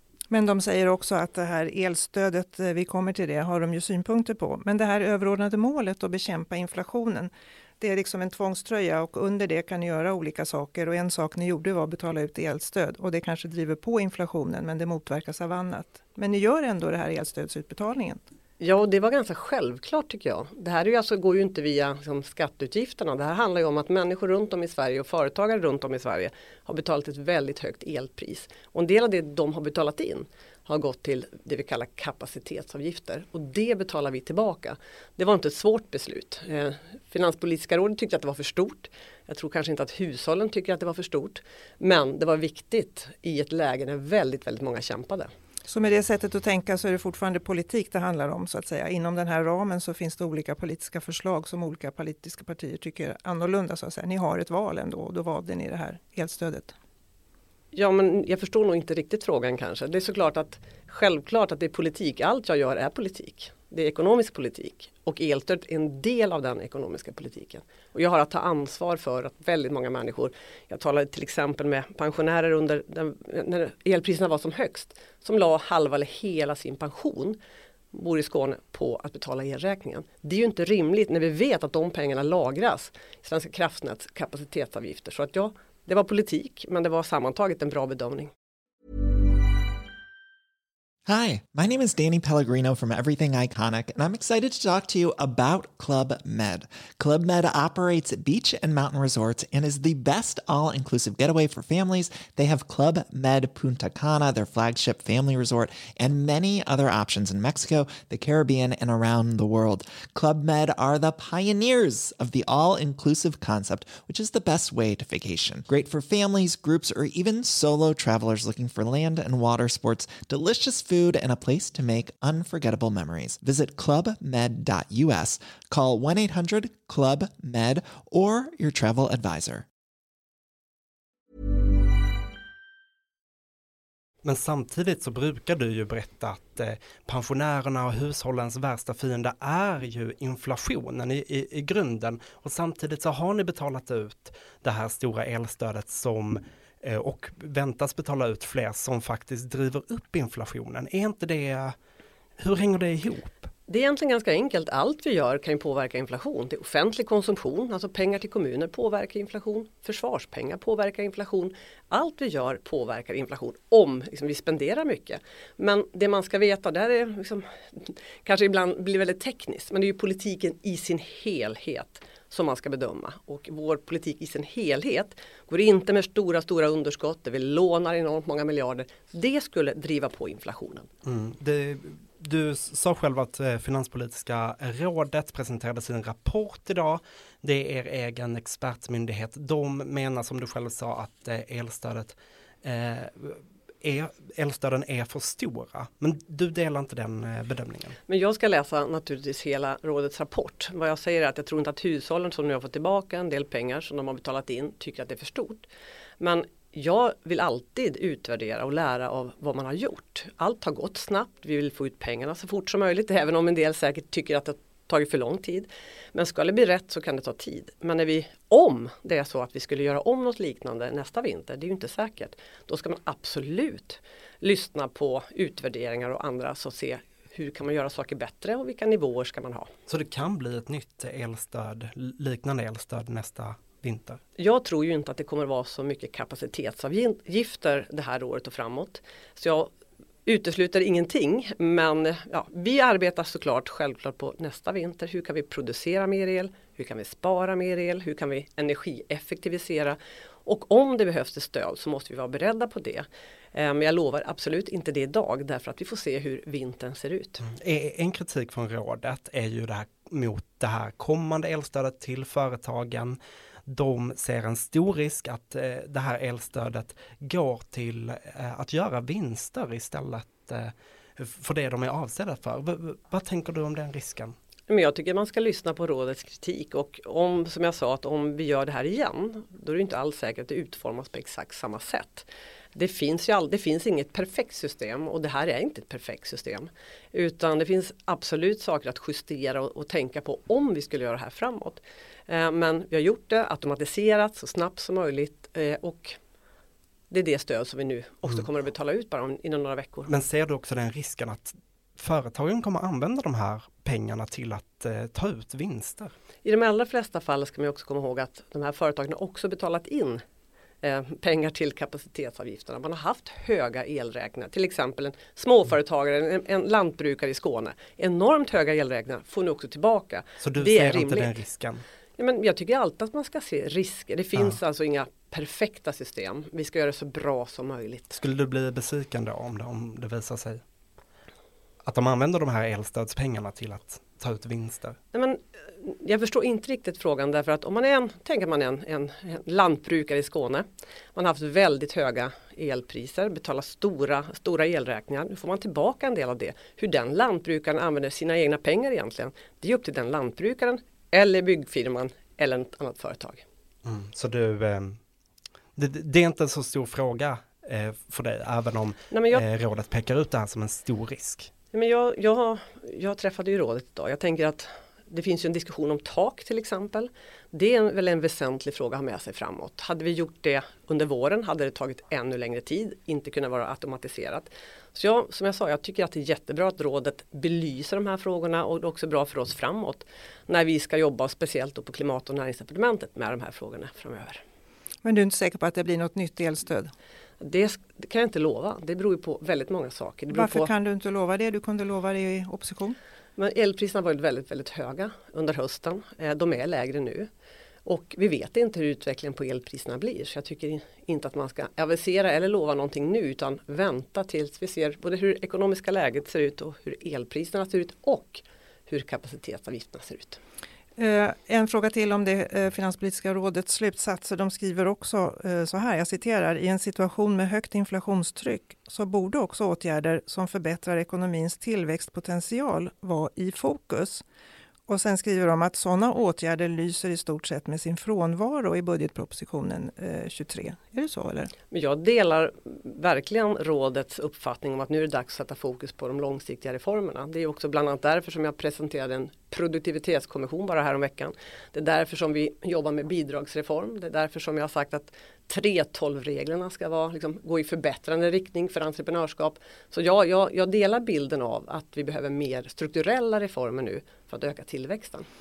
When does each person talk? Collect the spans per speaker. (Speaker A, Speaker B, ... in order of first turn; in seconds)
Speaker A: 0.3-18.2, 45.6-56.7, 385.0-386.9, 390.3-393.0, 411.0-424.2, 424.9-431.5
Speaker B: 18.6-45.3, 57.7-77.4, 77.9-88.3, 153.7-180.9, 198.1-205.6, 206.2-229.7, 234.4-239.7, 240.2-257.4, 274.7-296.1, 297.1-300.1, 306.4-310.2, 310.8-321.3, 322.2-328.1, 335.1-353.4, 359.1-359.4, 361.7-384.4, 387.4-390.7, 393.4-397.3, 397.8-410.4, 431.7-455.3
Speaker C: 91.0-129.7
Speaker D: 134.2-151.8, 152.4-153.5, 181.0-198.0, 229.9-234.2, 257.4-274.4, 300.1-306.1, 320.4-321.8, 328.1-330.6, 331.8-335.0, 353.8-355.0, 355.8-361.5